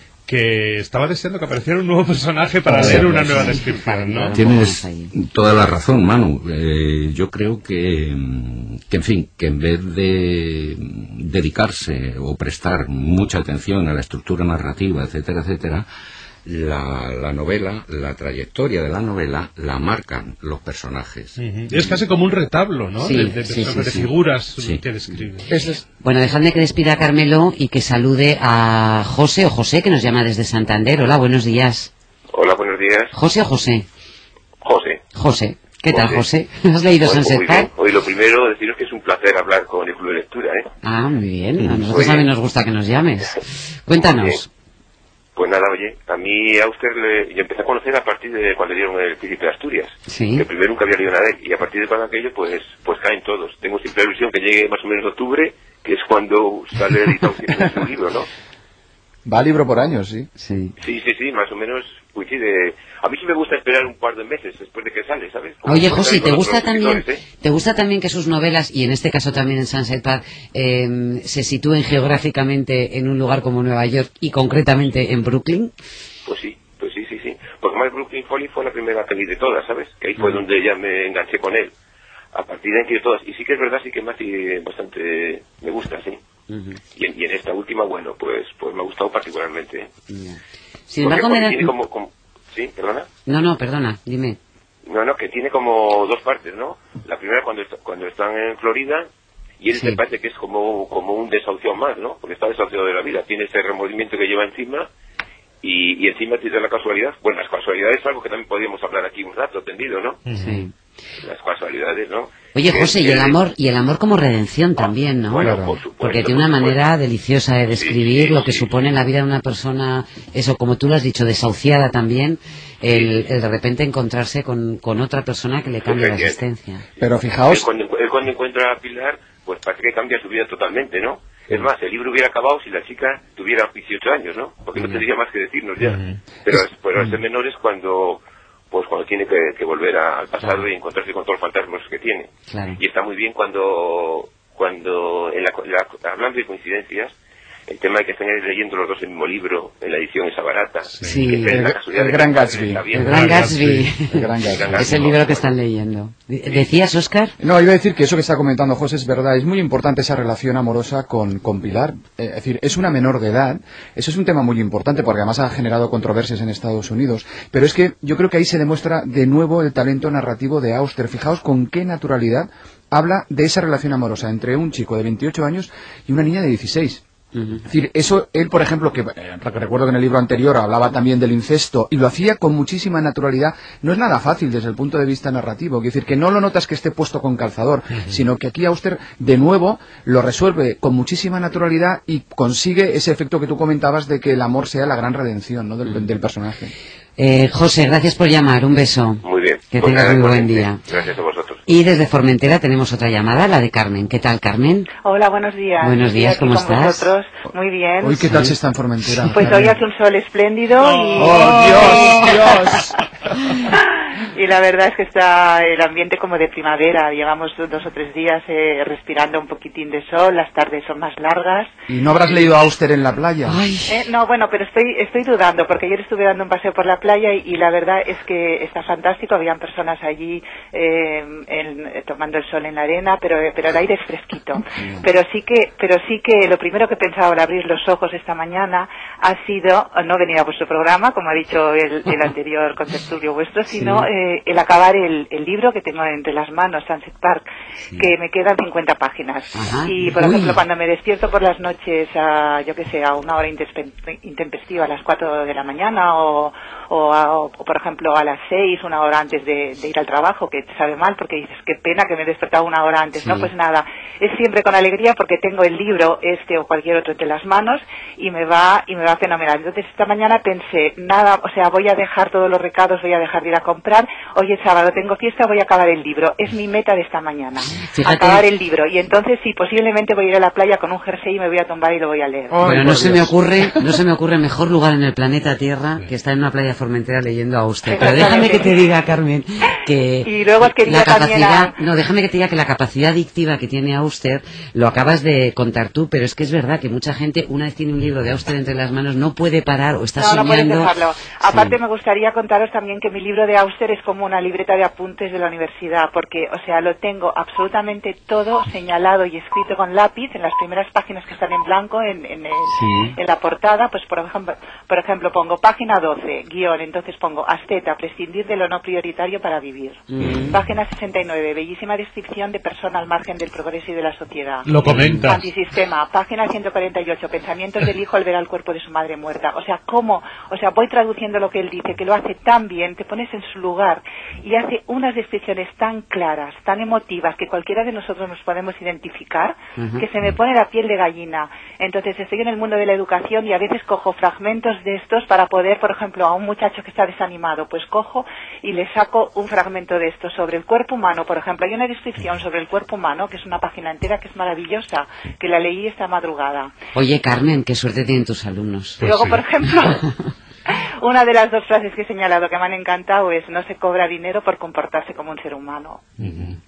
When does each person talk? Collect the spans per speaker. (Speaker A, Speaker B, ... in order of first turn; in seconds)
Speaker A: 0.2-4.3, 21.4-25.6, 110.2-110.6, 135.8-136.2, 153.0-153.9, 154.7-155.0, 210.8-212.4, 324.6-325.4, 359.0-359.4, 366.2-366.6
Speaker B: 2.7-5.1, 23.0-24.0, 26.0-31.9, 33.1-33.9, 35.1-37.7, 40.8-44.5, 50.1-50.5, 60.4-60.7, 65.7-75.7, 86.5-86.8, 90.1-91.7, 93.2-94.4, 99.7-100.0, 110.4-110.7, 112.5-126.8, 134.8-135.0, 140.4-140.7, 142.5-142.8, 151.0-151.6, 152.9-157.3, 177.3-177.6, 197.2-200.8, 201.7-204.9, 205.8-207.1, 208.3-208.5, 223.4-224.0, 234.8-235.1, 243.7-244.1, 249.5-250.6, 263.2-263.5, 277.8-278.4, 282.6-300.9, 301.4-301.8, 312.7-313.1, 320.1-320.5, 339.8-340.0, 356.9-359.0
Speaker C: 2.8-3.2, 4.3-15.8, 16.4-21.8, 24.6-24.8, 41.6-42.1, 320.2-320.6
Speaker D: 25.5-25.8, 59.2-60.3, 115.4-115.8, 127.0-127.7, 151.5-152.8, 154.1-155.1, 157.4-177.0, 177.6-196.7, 208.0-209.7, 211.2-212.9, 221.9-223.6, 282.5-283.8
Speaker E: 32.3-33.1, 34.6-35.0, 35.9-36.2, 37.0-40.7, 41.9-42.3, 43.9-44.4, 45.4-58.3, 60.8-67.2, 76.2-81.7, 82.3-86.2, 87.0-89.9, 91.0-93.1, 94.8-99.1, 99.6-104.9, 105.6-110.2, 111.2-113.4, 114.8-116.8, 117.7-118.7, 122.8-123.3, 125.8-126.4, 127.5-147.1, 147.7-153.5, 154.4-155.5, 199.2-201.6
Speaker F: 205.0-208.3, 209.3-212.8, 213.7-221.7, 223.9-282.8, 287.8-288.8, 290.2-291.8, 300.1-356.7, 359.0-360.1, 360.7-366.1